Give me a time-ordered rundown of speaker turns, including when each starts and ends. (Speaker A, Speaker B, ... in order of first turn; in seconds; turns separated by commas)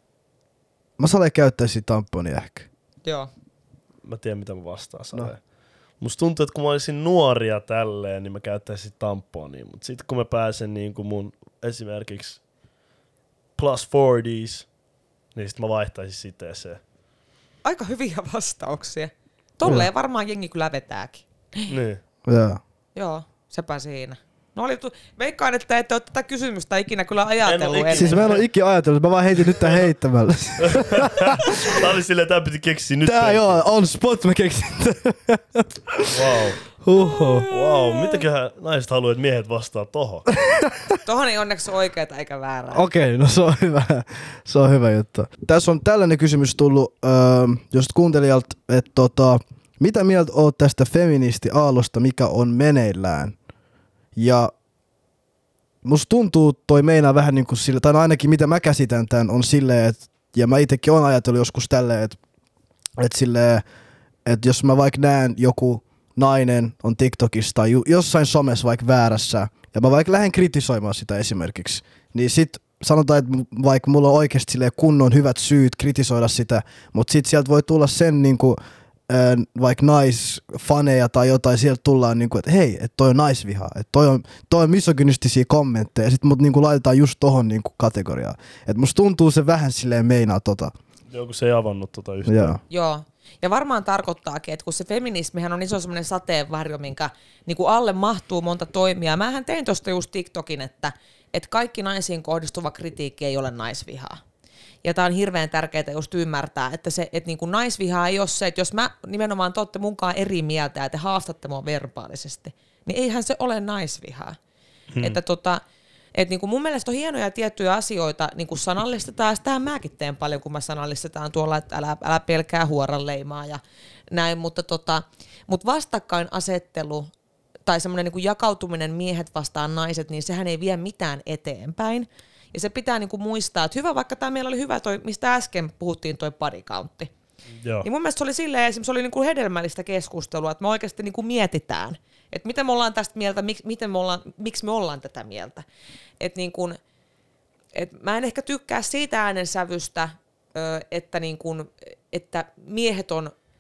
Speaker A: 1.0-2.7, Speaker B: 4.0-5.4, Speaker B: 6.0-12.4, Speaker B: 13.6-14.7, Speaker B: 15.3-16.8, Speaker C: 17.6-21.8, Speaker B: 21.7-22.0, Speaker A: 22.3-22.6, Speaker C: 22.9-28.2, Speaker B: 27.4-28.4, Speaker A: 27.9-31.8, Speaker B: 29.6-29.9, Speaker B: 30.6-33.6, Speaker A: 33.0-36.1, Speaker B: 36.1-36.6, Speaker A: 36.8-37.5, Speaker C: 37.0-38.2, Speaker B: 37.5-40.3, Speaker A: 40.4-41.0, Speaker C: 41.0-42.9, Speaker A: 42.7-53.4, Speaker A: 54.2-54.5, Speaker A: 55.8-62.2, Speaker A: 63.0-63.6, Speaker A: 64.2-90.7, Speaker B: 91.1-92.6, Speaker A: 92.3-92.6, Speaker C: 92.7-104.2, Speaker C: 104.8-114.4, Speaker B: 114.9-115.2, Speaker C: 115.0-115.6, Speaker C: 116.2-127.1, Speaker C: 127.7-137.1, Speaker B: 137.6-137.9, Speaker C: 137.8-145.6, Speaker C: 146.2-146.8, Speaker C: 147.7-153.3